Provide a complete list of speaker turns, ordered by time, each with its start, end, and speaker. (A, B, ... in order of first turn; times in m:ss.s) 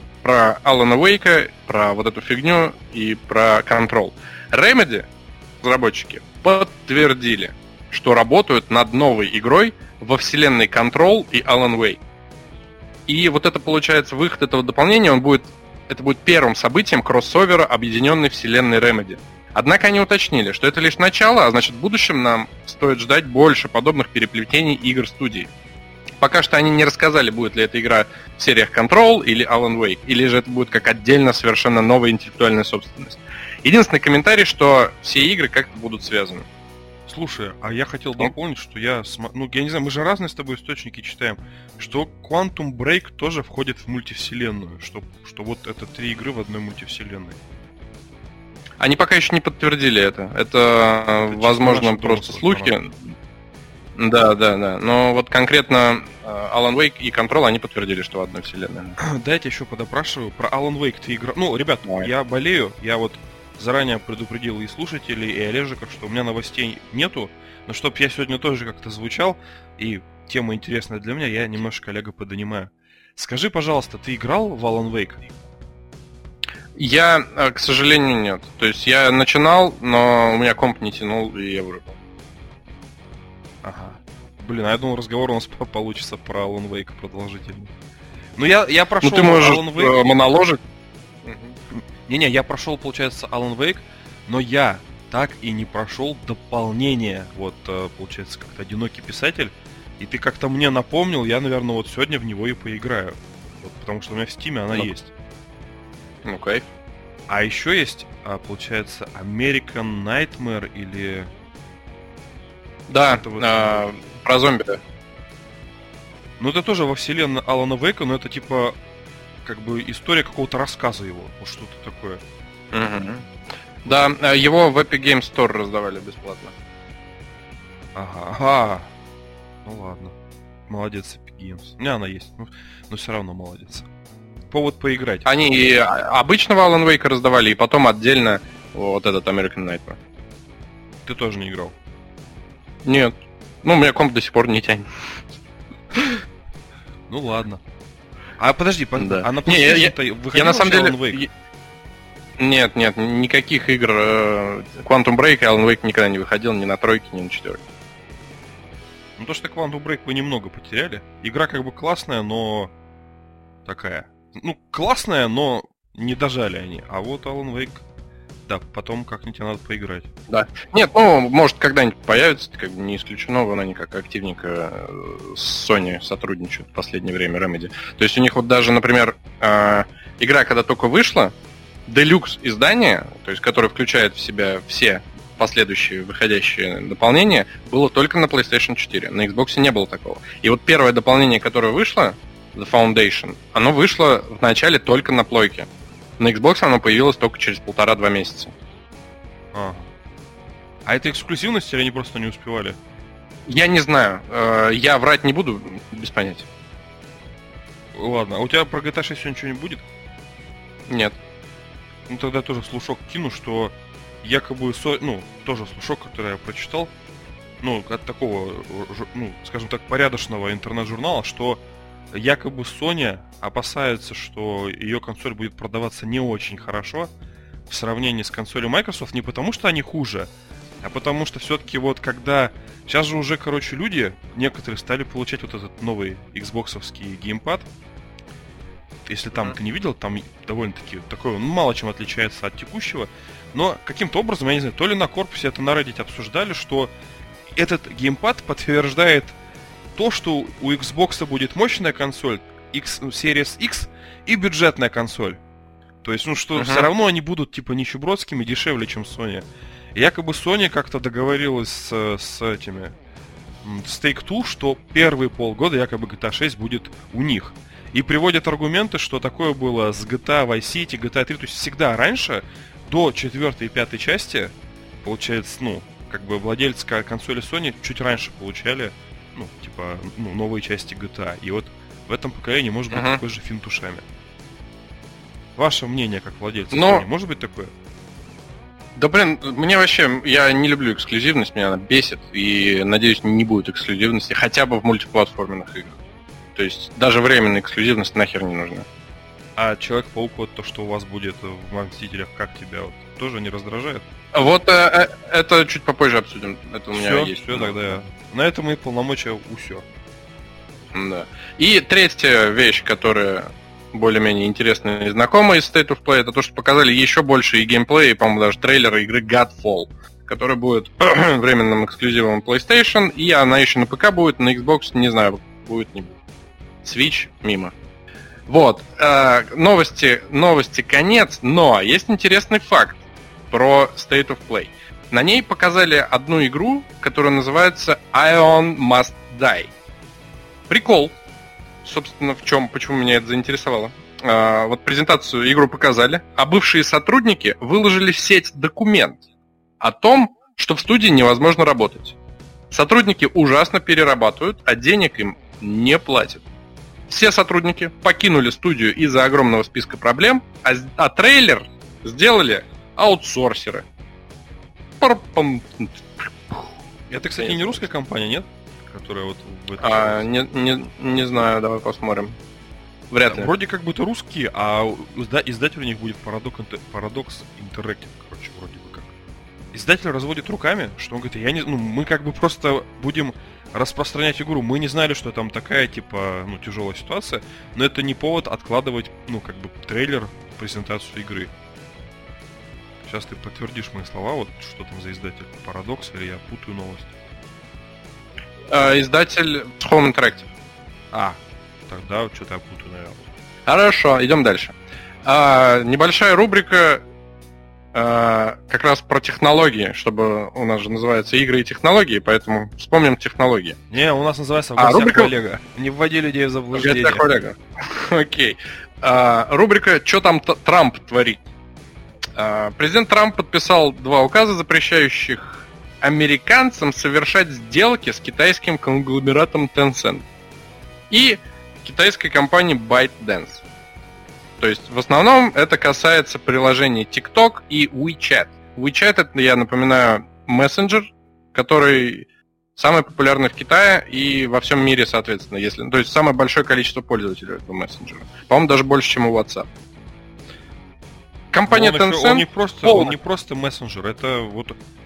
0:00.2-0:05.1 A
0:05.6-0:12.0 A
0:13.1-0:25.5 A
0:26.2-0:36.4 A
0:37.1-0:47.4 B
0:48.8-0:52.9 A
0:51.2-0:52.8 B
0:54.0-0:59.0 A
0:59.0-1:15.2 B
1:01.8-1:02.1 A
1:16.7-1:22.0 A
1:23.6-1:27.7 B
1:28.4-1:29.9 B
1:29.0-1:30.6 A
1:31.2-1:31.6 A
1:31.7-1:45.1 B
1:46.2-1:46.7 A
1:47.3-1:51.3 B
1:52.9-1:54.8 A
1:53.1-1:53.9 B
1:56.4-1:58.8 B
1:59.4-2:02.2 B
2:02.7-2:03.3 A
2:03.8-2:06.5 A
2:07.9-2:08.9 B
2:09.6-2:10.1 B
2:10.7-2:13.8 B
2:14.5-2:15.3 B
2:15.2-2:20.0 A
2:21.0-2:21.8 B
2:22.8-2:25.2 A
2:27.1-2:27.6 B
2:28.4-2:31.2 B
2:29.0-2:31.3 A
2:32.4-2:37.6 A
2:39.2-2:42.7 B
2:43.6-2:47.8 B
2:48.5-2:50.1 B
2:50.3-3:01.3 A
3:01.8-3:18.5 A
3:19.5-3:19.9 B
3:20.8-3:22.8 B
3:23.4-3:26.4 A
3:27.9-3:29.8 B
3:30.9-3:31.2 A
3:32.1-3:36.9 B
3:37.6-3:41.6 B
3:42.1-3:47.1 B
3:47.7-3:50.3 B
3:50.8-3:57.7 B
3:59.0-4:06.9 B
4:07.5-4:09.3 B
4:09.9-4:15.4 B
4:16.0-4:22.9 B
4:16.6-4:16.9 A
4:23.6-4:44.0 B
4:42.9-4:43.2 A
4:45.6-4:47.7 B
4:46.7-4:47.0 A
4:48.9-4:56.0 A
4:56.5-4:58.8 A
4:59.6-5:04.0 B
5:04.3-5:07.9 A
5:06.9-5:09.8 B
5:10.9-5:26.1 A
5:26.8-5:27.7 A
5:28.5-5:39.7 A
5:40.7-5:41.2 A
5:41.8-5:49.2 A
5:49.8-5:52.2 A
5:52.7-5:56.4 A
5:57.1-6:03.8 A
6:05.0-6:06.7 A
6:07.1-6:10.3 B
6:07.4-6:07.8 A
6:09.8-6:12.4 A
6:13.1-6:13.5 A
6:13.2-6:19.1 B
6:19.7-6:31.5 B
6:33.0-6:37.1 B
6:38.7-6:40.5 A
6:41.1-6:43.3 B
6:43.6-6:47.0 A
6:47.9-6:53.8 A
6:53.9-6:57.2 B
6:54.8-6:55.3 A
6:56.7-7:01.4 A
7:02.4-7:10.2 A
7:11.1-7:13.6 A
7:14.6-7:29.7 A
7:31.5-7:33.1 A
7:31.6-7:34.8 B